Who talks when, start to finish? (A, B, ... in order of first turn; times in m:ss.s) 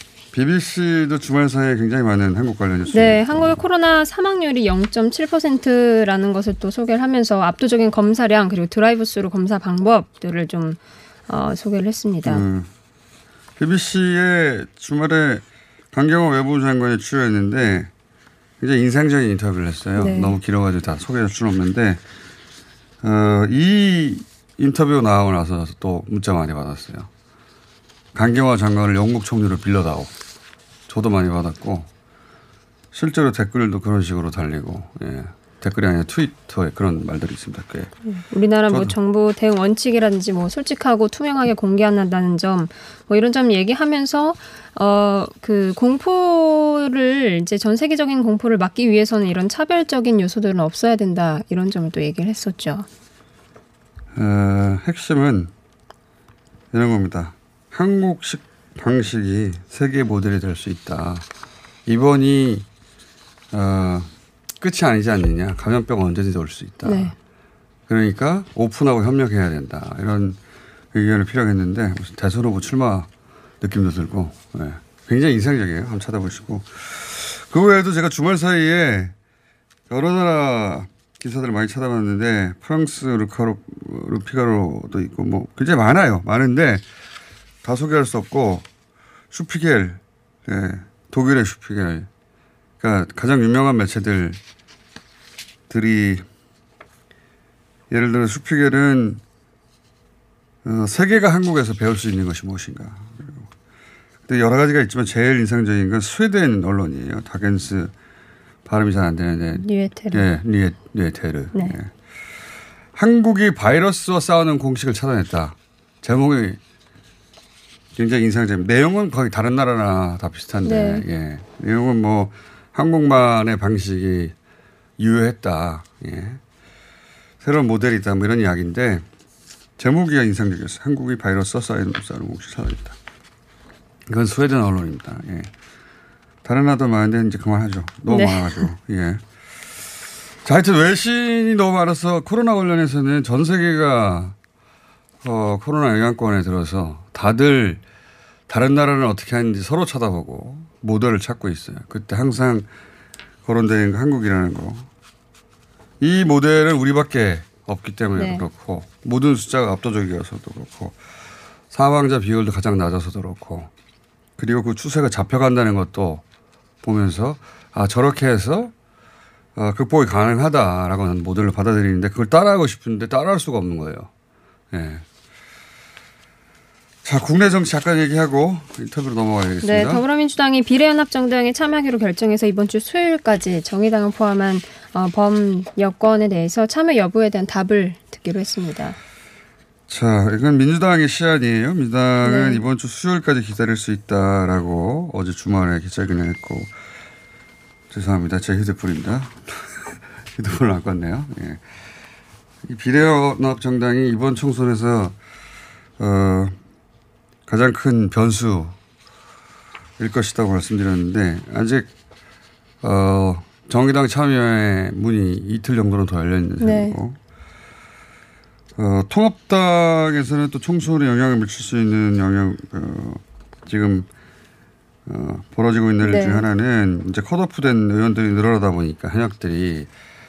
0:00.3-0:03.6 A
0:02.9-0:12.4 B
0:12.2-0:12.7 A
0:13.6-0:17.9 A
0:18.6-0:22.0 A
0:20.0-0:20.4 B
0:23.0-0:27.1 A
0:28.1-0:30.1 A
0:30.9-0:31.9 A
0:32.9-0:37.9 A
0:38.0-0:52.9 B
0:38.7-0:39.0 A
0:54.2-0:55.5 A
0:56.7-1:01.3 A
1:01.9-1:02.7 A
1:03.5-1:07.1 A
1:06.8-1:07.1 B
1:07.9-1:10.4 A
1:10.9-1:13.1 A
1:13.6-1:19.1 A
1:19.9-1:26.8 A
1:27.6-1:28.6 A
1:29.3-1:32.1 A
1:32.8-1:34.4 A
1:35.7-1:36.2 A
1:37.9-1:39.2 A
1:40.6-1:43.5 A
1:44.3-1:47.9 A
1:48.7-1:51.9 A
1:49.6-1:50.3 B
1:53.0-1:56.6 A
1:58.0-2:04.4 A
2:00.6-2:01.0 B
2:05.0-2:06.4 A
2:07.4-2:09.0 A
2:09.8-2:13.0 A
2:14.1-2:15.5 A
2:16.4-2:19.2 A
2:18.1-2:18.7 B
2:20.4-2:24.4 A
2:25.2-2:27.8 A
2:28.5-2:32.7 A
2:33.4-2:34.9 A
2:36.0-2:41.0 A
2:38.2-2:38.5 B
2:41.7-2:43.7 A
2:44.4-2:46.2 A
2:46.8-2:48.7 A
2:49.6-2:54.1 A
2:54.7-2:55.0 A
2:57.0-3:00.0 A
2:59.6-3:09.0 B
3:09.9-3:16.7 A
3:12.2-3:12.6 B
3:17.9-3:21.6 A
3:22.6-3:25.2 A
3:26.0-3:26.6 A
3:27.5-3:28.8 A
3:30.0-3:31.9 A
3:32.8-3:37.2 A
3:36.6-3:37.0 B
3:38.8-3:44.1 A
3:45.1-3:49.9 A
3:46.0-3:46.5 B